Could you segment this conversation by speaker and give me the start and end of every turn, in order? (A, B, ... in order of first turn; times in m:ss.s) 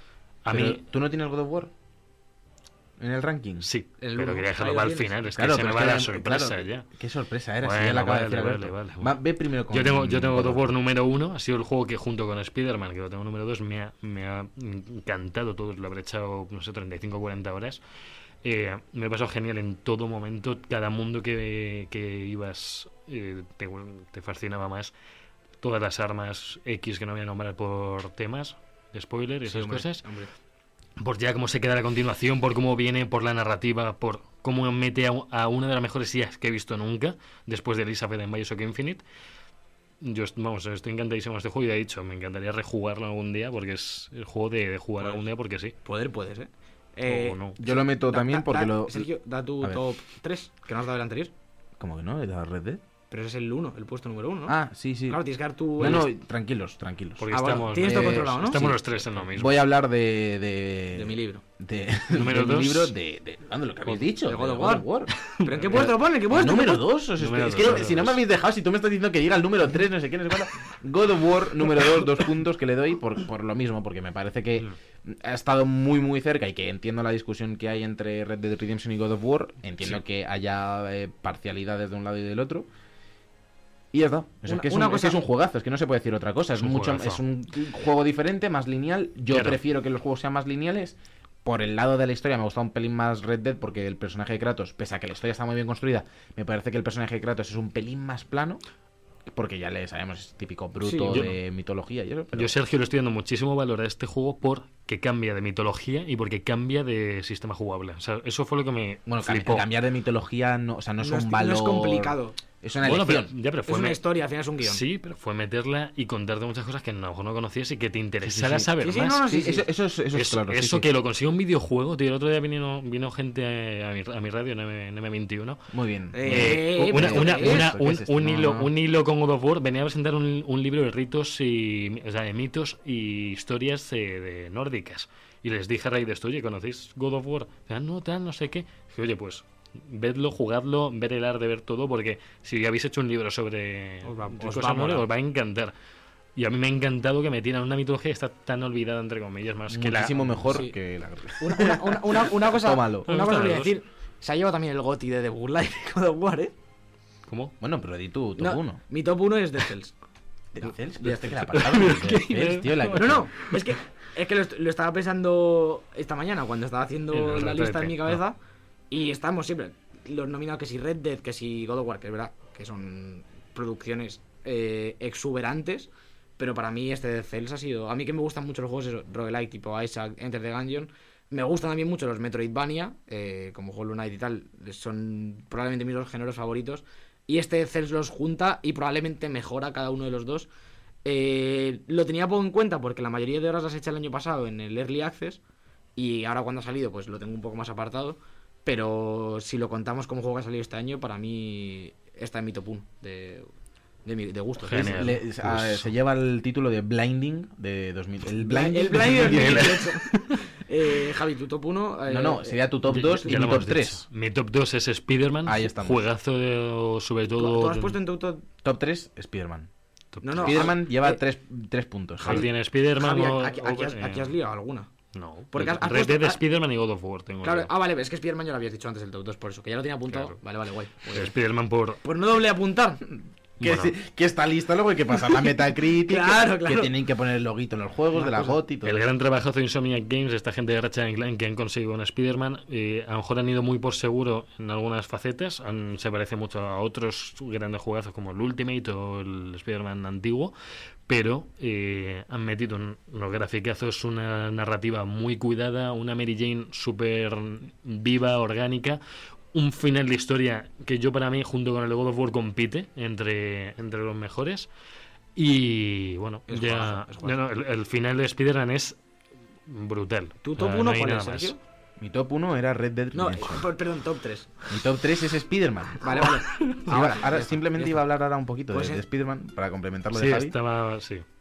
0:00.4-0:00.8 A
0:00.5-0:01.7 B
0:03.0-0:03.7 B
0:03.6-0:06.9 A
0:04.0-0:05.2 C
0:05.3-0:10.8 B
0:07.6-0:09.1 A
0:09.7-0:17.8 A
0:18.4-0:24.9 A
0:25.6-0:30.0 A
0:29.4-0:30.3 C
0:31.0-0:39.0 A
0:40.0-0:45.7 A
0:45.8-0:51.3 C
0:47.0-0:47.6 A
0:47.6-0:49.1 B
0:51.8-0:52.8 B
0:53.1-0:54.6 C
0:54.5-0:55.2 B
0:55.1-0:56.1 C
0:55.8-1:05.1 B
0:57.2-0:59.6 A
0:57.3-0:58.7 C
1:00.9-1:01.4 C
1:02.1-1:02.9 A
1:03.9-1:06.9 C
1:05.3-1:06.0 A
1:05.7-1:22.7 B
1:07.2-1:08.2 A
1:23.9-1:38.6 B
1:24.4-1:25.2 C
1:26.6-1:27.2 A
1:29.3-1:29.6 A
1:39.3-1:42.6 B
1:40.8-1:41.3 C
1:41.0-1:41.3 A
1:42.3-1:49.7 A
1:49.1-1:53.3 B
1:51.0-1:52.4 C
1:52.8-1:54.0 A
1:53.7-1:54.8 C
1:54.6-1:59.3 A
1:58.2-1:58.7 B
1:58.8-1:59.6 C
1:59.2-2:00.9 B
2:00.1-2:05.7 A
2:05.7-2:08.7 B
2:06.1-2:07.7 C
2:06.3-2:25.7 A
2:24.0-2:25.0 C
2:26.4-2:30.6 A
2:29.7-2:33.1 B
2:31.4-2:36.6 C
2:33.1-2:33.7 A
2:37.3-2:37.6 A
2:37.6-2:38.8 B
2:38.4-2:39.9 C
2:40.5-2:43.3 B
2:41.0-2:41.9 C
2:41.6-2:43.6 A
2:42.9-2:48.4 C
2:47.1-2:48.2 A
2:48.9-3:10.5 C
3:11.0-3:15.4 C
3:16.0-3:23.5 C
3:24.0-3:25.1 C
3:24.6-3:25.9 A
3:24.7-3:29.8 B
3:28.4-3:33.3 C
3:28.9-3:30.4 A
3:32.1-3:34.0 B
3:32.9-3:38.0 A
3:35.4-3:36.0 B
3:37.4-3:38.4 C
3:38.6-3:39.7 B
3:40.1-3:40.7 A
3:40.2-3:41.2 C
3:40.4-3:42.5 B
3:42.2-3:44.4 A
3:42.2-3:44.9 C
3:45.1-3:47.7 A
3:45.5-3:46.4 C
3:47.4-3:51.3 C
3:50.1-3:50.4 A
3:51.1-3:52.0 A
3:52.0-3:53.0 C
3:53.6-3:54.0 A
3:53.6-3:59.1 B
3:56.0-3:57.0 C
3:58.1-3:58.6 C
3:58.8-4:10.5 A
4:11.1-4:19.0 A
4:19.5-4:24.7 A
4:25.4-4:29.0 A
4:26.5-4:27.4 C
4:29.7-4:31.5 A
4:30.4-4:31.6 C
4:32.0-4:33.7 B
4:33.1-4:34.6 C
4:34.7-4:36.2 B
4:36.0-4:38.0 C
4:36.6-4:37.0 A
4:36.8-4:40.6 B
4:38.7-4:39.0 C
4:40.1-4:41.2 A